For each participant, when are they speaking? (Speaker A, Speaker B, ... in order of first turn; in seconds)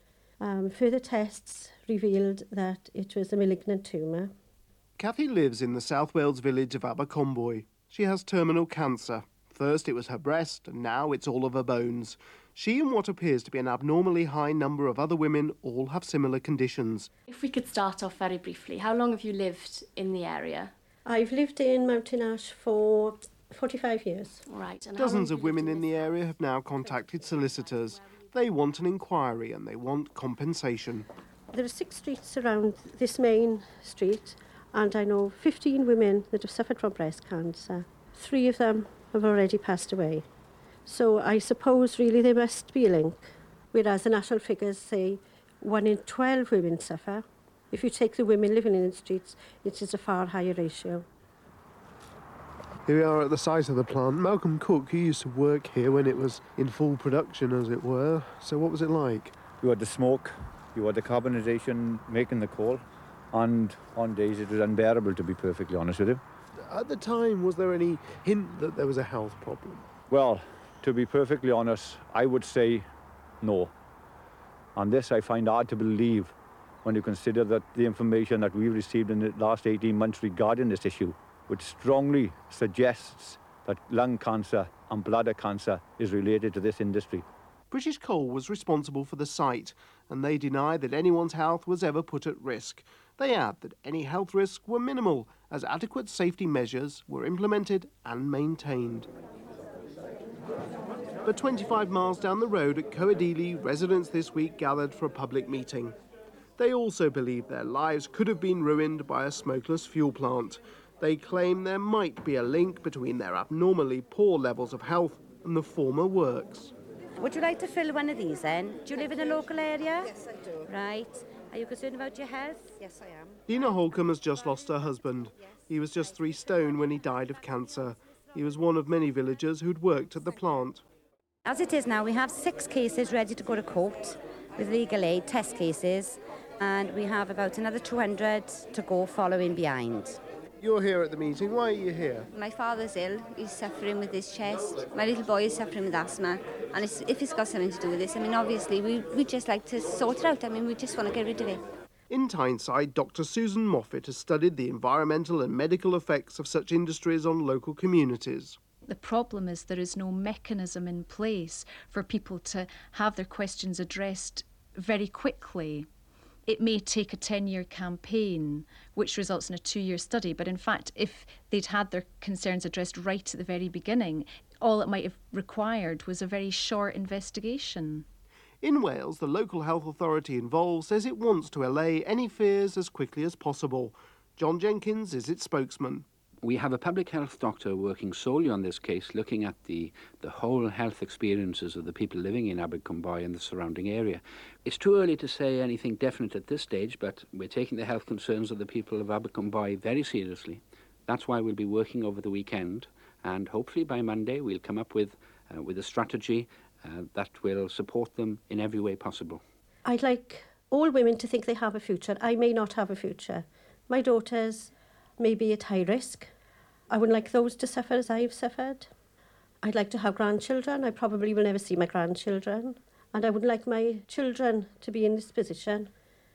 Speaker A: 0.4-4.3, 21.1-24.4, 31.5-40.2, 40.9-51.0, 209.8-216.3, 216.9-218.9, 219.6-225.9
Speaker B: 5.0-17.1, 24.9-31.1, 52.9-59.4, 66.7-69.8, 87.7-99.1, 101.2-106.0, 106.6-116.7, 123.5-130.8, 140.6-142.3, 152.1-158.6, 178.6-186.0
Speaker C: 17.3-20.7, 24.5-25.9
Speaker D: 59.6-62.8, 63.3-66.2, 70.1-72.8, 73.4-73.7, 74.8-87.2
Speaker E: 117.2-120.1, 120.7-122.7, 131.4-140.2
Speaker F: 142.3-151.6
Speaker G: 158.9-165.9, 166.5-178.0
Speaker H: 186.4-209.4